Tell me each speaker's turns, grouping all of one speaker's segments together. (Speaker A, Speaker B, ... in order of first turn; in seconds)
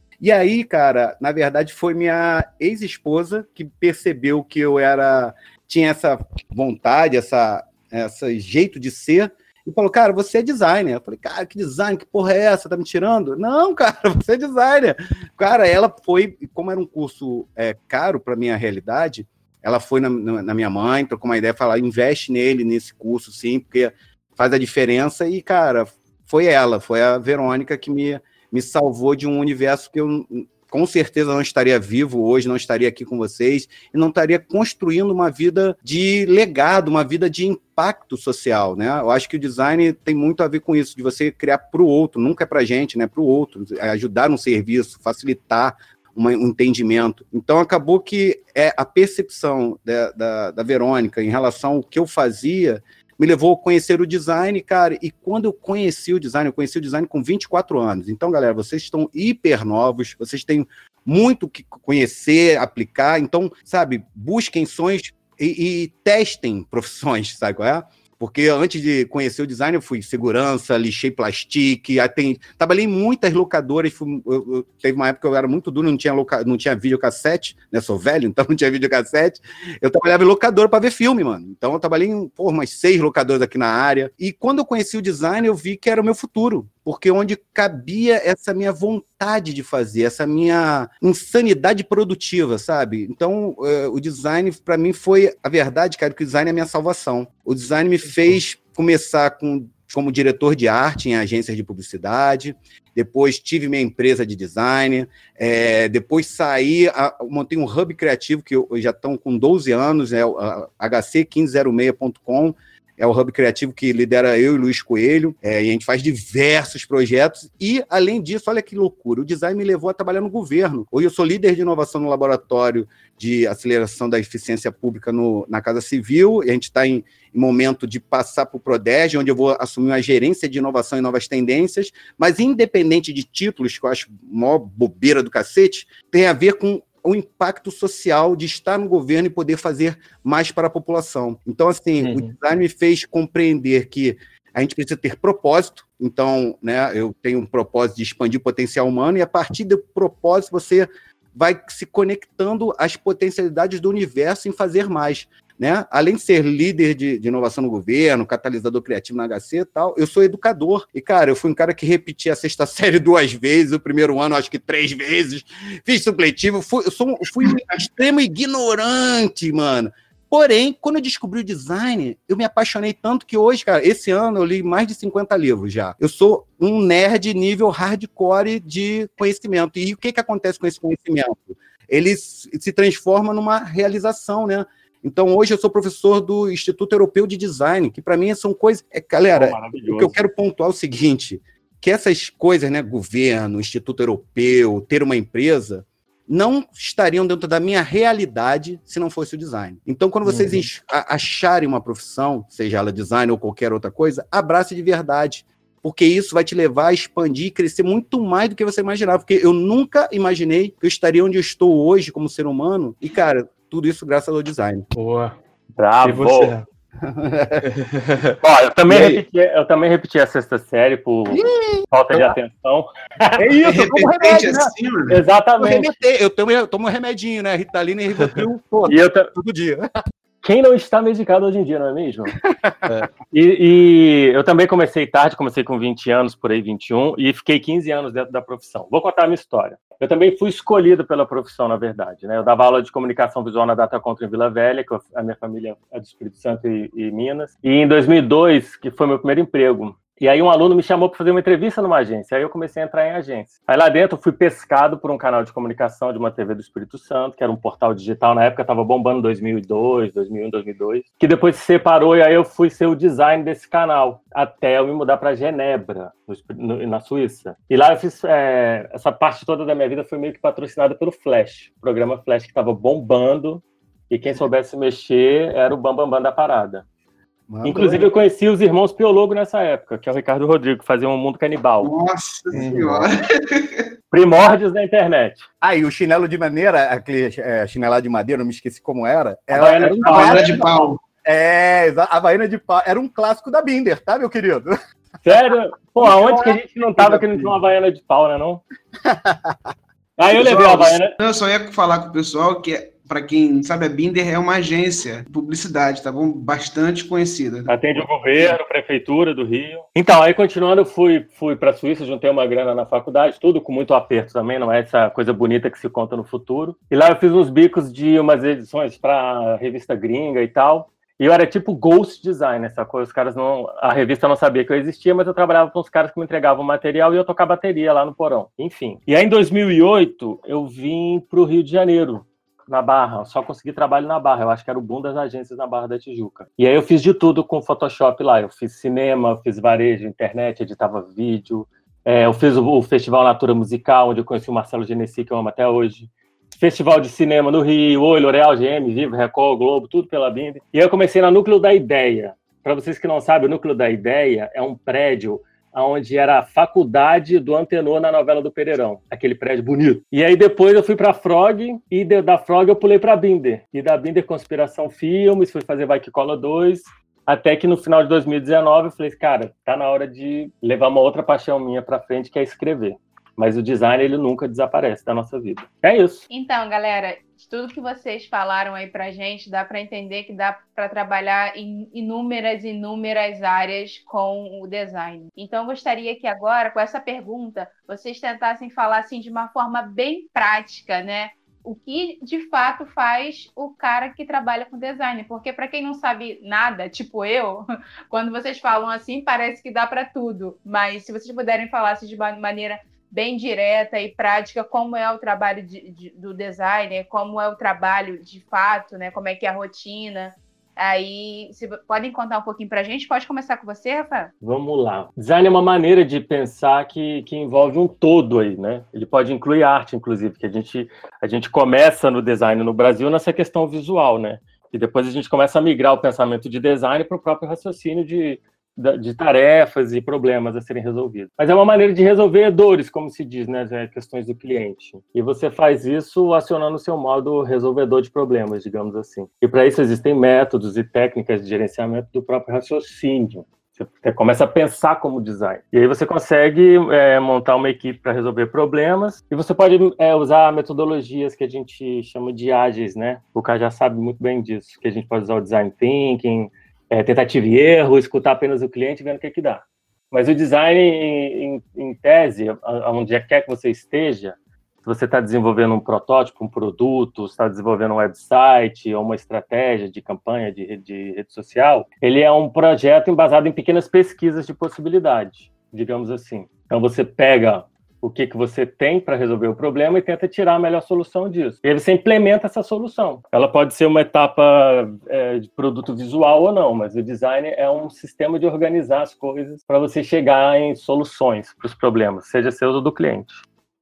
Speaker A: 0.2-214.8, 217.0-217.7, 221.3-222.3, 223.4-224.7, 225.6-229.9, 232.4-232.8, 277.5-278.1, 285.6-294.7, 296.0-297.5, 299.0-299.6
Speaker B: 142.0-142.3, 200.2-200.7, 214.9-215.3, 216.0-216.6, 217.6-218.3, 218.9-219.2, 282.5-283.0
Speaker C: 189.3-190.1, 215.8-216.5, 218.4-223.4, 225.1-225.9, 228.8-229.3, 230.4-232.3, 233.2-276.8, 277.6-281.9, 284.1-285.4, 289.5-290.6, 295.2-298.6, 300.2-301.1, 307.7-376.2, 414.4-493.4
Speaker D: 223.6-225.2, 281.8-283.9, 289.9-291.0, 300.3-308.5
Speaker E: 376.3-414.3